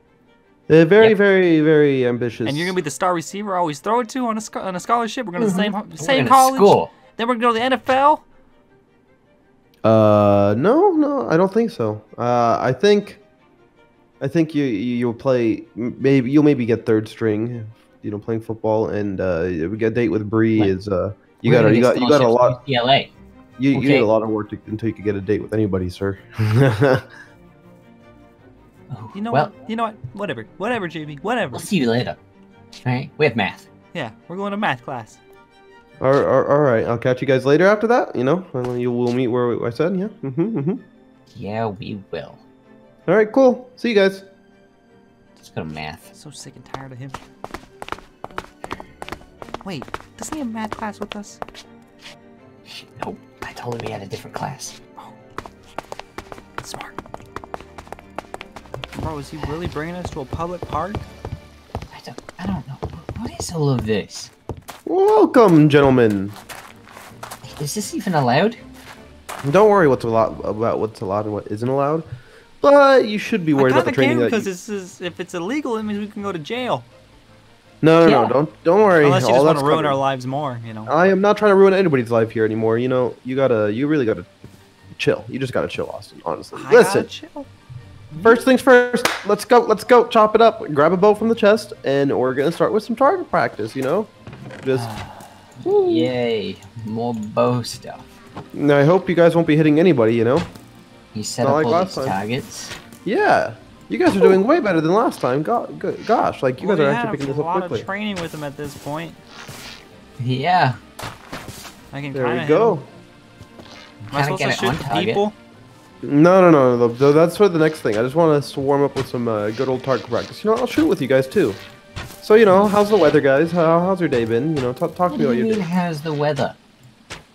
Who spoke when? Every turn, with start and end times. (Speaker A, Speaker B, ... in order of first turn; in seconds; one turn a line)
Speaker A: 0.7-2.8
Speaker B: 2.4-8.2
Speaker C: 5.4-6.9
Speaker A: 9.8-13.2
Speaker A: 14.2-22.6
Speaker C: 21.4-23.1
Speaker A: 23.6-27.1
Speaker C: 23.7-24.1
Speaker C: 28.9-29.5
Speaker B: 29.1-31.7
Speaker C: 31.5-32.2
Speaker C: 32.8-33.7
Speaker B: 33.9-35.2
Speaker A: 36.0-40.8
Speaker C: 41.3-42.4
Speaker A: 43.1-44.3
Speaker C: 45.4-46.1
Speaker B: 46.1-47.2
Speaker B: 49.6-51.4
Speaker C: 52.6-54.8
Speaker B: 56.6-57.0
Speaker B: 58.9-61.0
Speaker C: 61.9-64.3
Speaker A: 64.8-66.4
Speaker C: 67.4-68.6
Speaker A: 69.4-72.1
Speaker A: 72.6-74.5
Speaker B: 73.5-76.9
Speaker A: 77.8-80.0
Speaker C: 78.0-78.3
Speaker B: 79.0-80.9
Speaker A: 80.9-84.3
Speaker A: 84.9-87.1
Speaker B: 86.5-87.5
Speaker B: 88.1-88.4
Speaker A: 88.2-94.1
Speaker A: 94.6-94.9
Speaker B: 94.7-95.2
Speaker C: 95.6-98.1
Speaker A: 95.6-96.1
Speaker A: 98.5-100.5
Speaker C: 101.1-102.8
Speaker A: 101.4-102.2
Speaker A: 103.0-107.8
Speaker B: 106.6-109.2
Speaker C: 110.2-110.8
Speaker B: 111.9-112.8
Speaker A: 112.1-112.9
Speaker C: 114.0-115.2
Speaker B: 114.1-115.3
Speaker A: 116.0-121.6
Speaker A: 122.2-125.7
Speaker C: 122.5-123.2
Speaker C: 125.1-126.6